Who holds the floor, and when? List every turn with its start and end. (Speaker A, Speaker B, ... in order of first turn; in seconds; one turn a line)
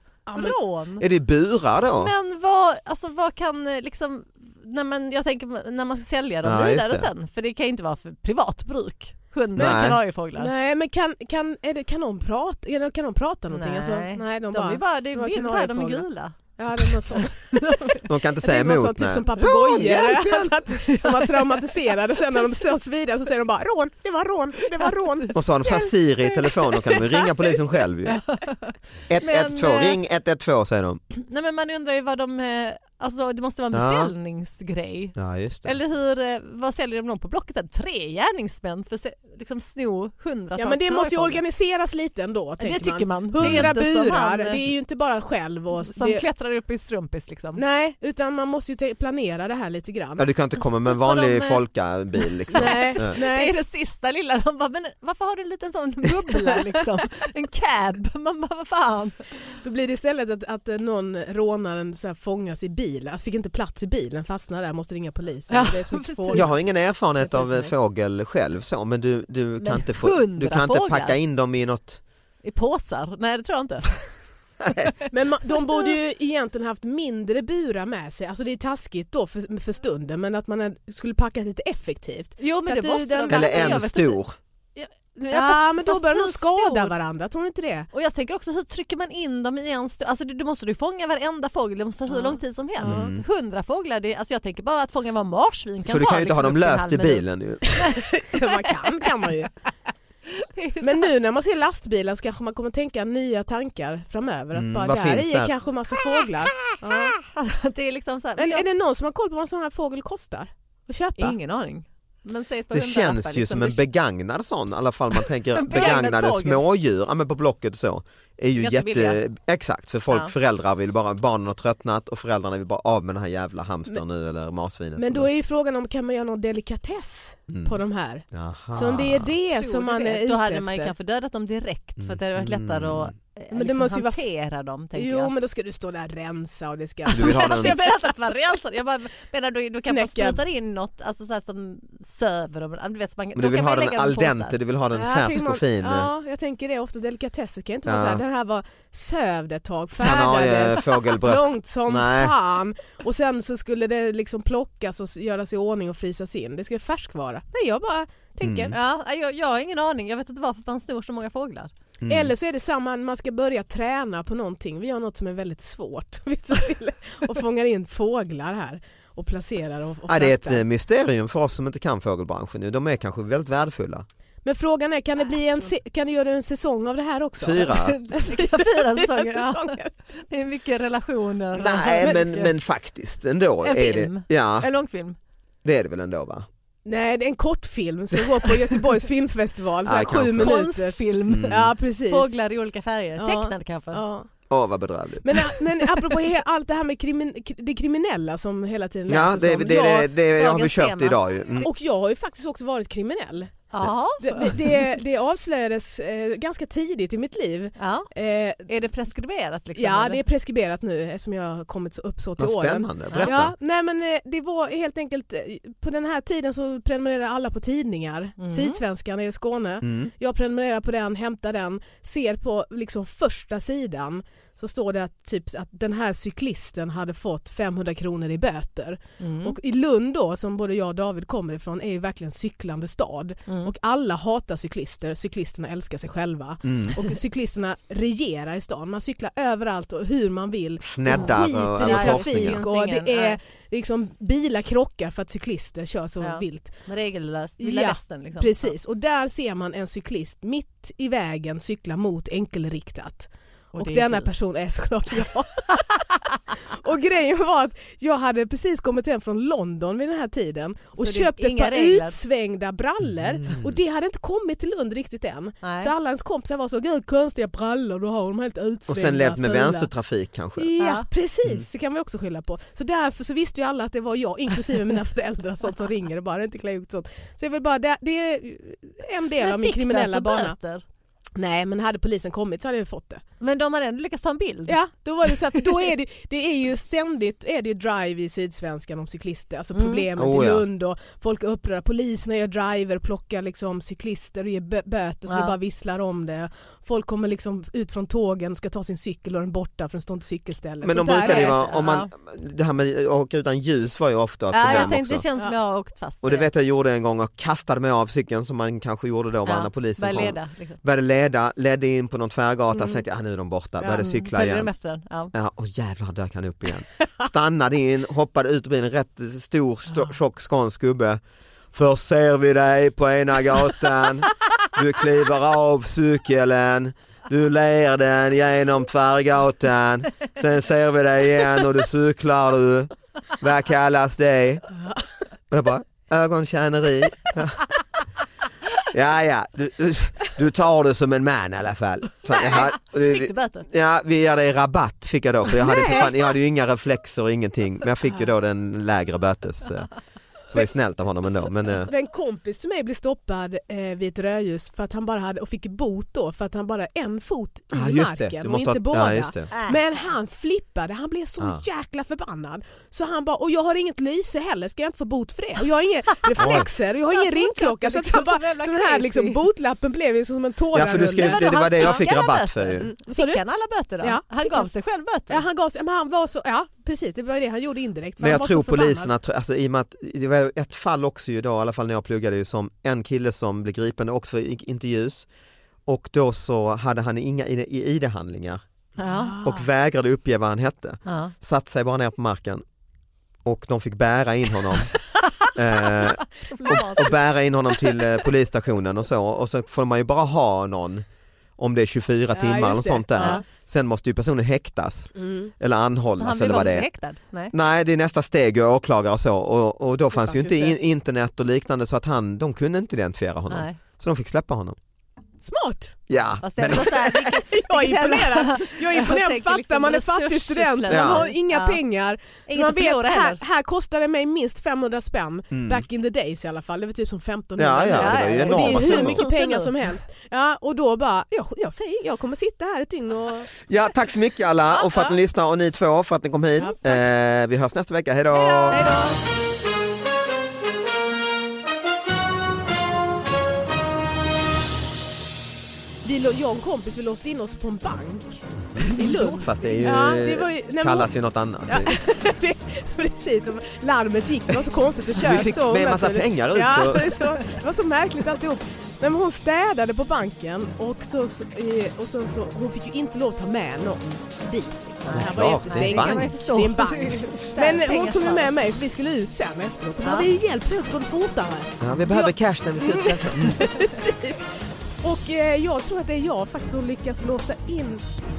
Speaker A: 0.3-0.6
Speaker B: 0.3-1.1
Speaker C: 1.0-2.1
Speaker B: 1.9-10.5
Speaker C: 6.4-7.1
Speaker C: 9.6-10.0
Speaker A: 10.4-16.1
Speaker B: 13.5-17.9
Speaker A: 16.6-27.3
Speaker C: 18.1-20.6
Speaker B: 20.9-21.6
Speaker B: 22.3-22.6
Speaker B: 24.8-25.3
Speaker C: 25.3-28.2
Speaker B: 28.1-30.0
Speaker C: 29.1-31.0
Speaker B: 31.2-41.4
Speaker C: 33.7-34.1
Speaker C: 35.2-35.8
Speaker A: 40.6-46.2
Speaker B: 42.6-44.7
Speaker C: 43.4-43.8
Speaker B: 45.7-47.6
Speaker A: 47.6-50.3
Speaker C: 50.2-53.2
Speaker B: 50.9-51.6
Speaker B: 52.3-59.6
Speaker A: 52.5-53.5
Speaker A: 59.6-66.6
Speaker B: 65.5-66.5
Speaker C: 66.3-72.0
Speaker A: 67.2-67.7
Speaker B: 69.6-71.2
Speaker B: 72.4-76.0
Speaker A: 75.1-83.8
Speaker B: 82.4-84.2
Speaker C: 83.3-84.4
Speaker A: 84.8-87.9
Speaker B: 85.3-86.9
Speaker B: 87.9-97.2
Speaker A: 92.1-93.1
Speaker C: 92.8-93.2
Speaker C: 95.9-97.9
Speaker A: 97.8-99.5
Speaker B: 100.6-101.1
Speaker A: 100.8-107.2
Speaker C: 104.5-105.5
Speaker B: 106.6-108.7
Speaker A: 108.4-111.4
Speaker B: 111.2-113.8
Speaker C: 112.7-125.3
Speaker B: 115.5-116.6
Speaker A: 115.8-116.0
Speaker B: 118.6-119.2
Speaker A: 125.0-130.9
Speaker C: 127.5-127.8
Speaker C: 128.3-129.3
Speaker B: 129.4-135.3
Speaker C: 132.0-133.1
Speaker A: 133.5-134.2
Speaker A: 134.9-137.8
Speaker B: 137.1-144.6
Speaker C: 137.1-137.8
Speaker A: 139.9-140.4
Speaker C: 143.3-146.1
Speaker A: 144.9-158.8
Speaker C: 147.9-148.2
Speaker C: 150.0-152.3
Speaker C: 158.4-158.8
Speaker B: 158.7-161.7
Speaker C: 162.0-162.3
Speaker A: 162.1-170.6
Speaker C: 170.1-174.1
Speaker A: 174.4-177.7
Speaker B: 175.3-175.7
Speaker C: 177.4-178.0
Speaker B: 177.7-182.6
Speaker A: 178.3-179.9
Speaker C: 181.5-184.7
Speaker B: 183.6-185.2
Speaker C: 185.6-186.5
Speaker A: 186.9-192.3
Speaker C: 189.8-190.6
Speaker B: 190.0-194.0
Speaker C: 191.3-191.7
Speaker A: 193.2-194.3
Speaker C: 194.5-195.4
Speaker A: 195.2-200.1
Speaker C: 199.1-201.7
Speaker B: 200.2-201.7
Speaker A: 201.6-203.7
Speaker B: 203.7-204.6
Speaker A: 204.2-208.7
Speaker B: 207.8-208.1
Speaker B: 208.7-210.2
Speaker A: 209.8-246.8
Speaker C: 212.4-213.6
Speaker B: 213.1-213.3
Speaker B: 218.4-218.8
Speaker C: 219.8-220.1
Speaker B: 229.2-229.6
Speaker C: 236.7-237.0
Speaker C: 240.8-242.6
Speaker B: 241.1-243.4
Speaker B: 246.2-248.7
Speaker A: 247.6-256.0
Speaker B: 253.7-254.3
Speaker A: 256.8-269.9
Speaker B: 261.0-262.2
Speaker C: 263.1-263.8
Speaker B: 265.6-265.9
Speaker C: 268.9-270.7
Speaker A: 270.6-280.6
Speaker B: 270.8-271.1
Speaker B: 279.4-280.8
Speaker A: 281.4-283.2
Speaker B: 283.4-284.8
Speaker A: 284.7-301.6
Speaker B: 289.7-290.1
Speaker C: 290.2-290.7
Speaker B: 295.3-295.6
Speaker C: 300.8-305.2
Speaker B: 301.2-302.1
Speaker B: 304.5-306.5
Speaker A: 304.6-305.5
Speaker C: 306.2-314.7
Speaker B: 309.5-310.8
Speaker A: 312.7-313.0
Speaker B: 313.9-315.3
Speaker C: 315.3-321.2
Speaker C: 321.7-334.6
Speaker C: 335.5-337.6
Speaker C: 338.9-349.9
Speaker B: 342.3-343.7
Speaker A: 345.5-346.1
Speaker C: 350.5-351.9
Speaker A: 351.9-372.0
Speaker C: 357.7-359.5
Speaker B: 359.5-360.1
Speaker B: 366.2-369.4
Speaker C: 366.4-366.7
Speaker C: 370.7-372.9
Speaker B: 370.9-375.5
Speaker A: 372.8-373.4
Speaker A: 374.0-374.7
Speaker A: 375.3-379.1
Speaker C: 378.2-385.3
Speaker C: 385.9-388.6
Speaker B: 389.0-389.4
Speaker A: 389.0-389.7
Speaker C: 389.4-392.6
Speaker B: 391.1-391.3
Speaker C: 393.4-394.9
Speaker B: 395.4-396.1
Speaker C: 395.6-401.1
Speaker B: 396.6-397.2
Speaker A: 396.6-397.1
Speaker C: 401.6-406.9
Speaker A: 402.3-403.4
Speaker B: 403.2-403.4
Speaker A: 405.2-405.5
Speaker B: 406.1-407.5
Speaker C: 407.5-414.8
Speaker A: 410.1-410.8
Speaker B: 413.5-413.8
Speaker A: 415.4-416.1
Speaker C: 416.1-417.2
Speaker B: 416.4-421.8
Speaker A: 416.7-433.5
Speaker C: 420.9-421.3
Speaker B: 422.5-423.4
Speaker C: 425.5-425.9
Speaker C: 427.6-429.2
Speaker B: 427.9-429.7
Speaker C: 433.7-438.9
Speaker A: 434.8-435.1
Speaker A: 436.6-437.0
Speaker B: 438.4-439.2
Speaker A: 446.0-451.1
Speaker C: 448.8-452.0
Speaker B: 449.0-449.9
Speaker A: 451.7-474.5
Speaker C: 455.1-457.2
Speaker B: 465.1-468.5
Speaker C: 465.1-466.4
Speaker B: 470.0-470.3
Speaker C: 471.8-473.7
Speaker A: 475.0-478.1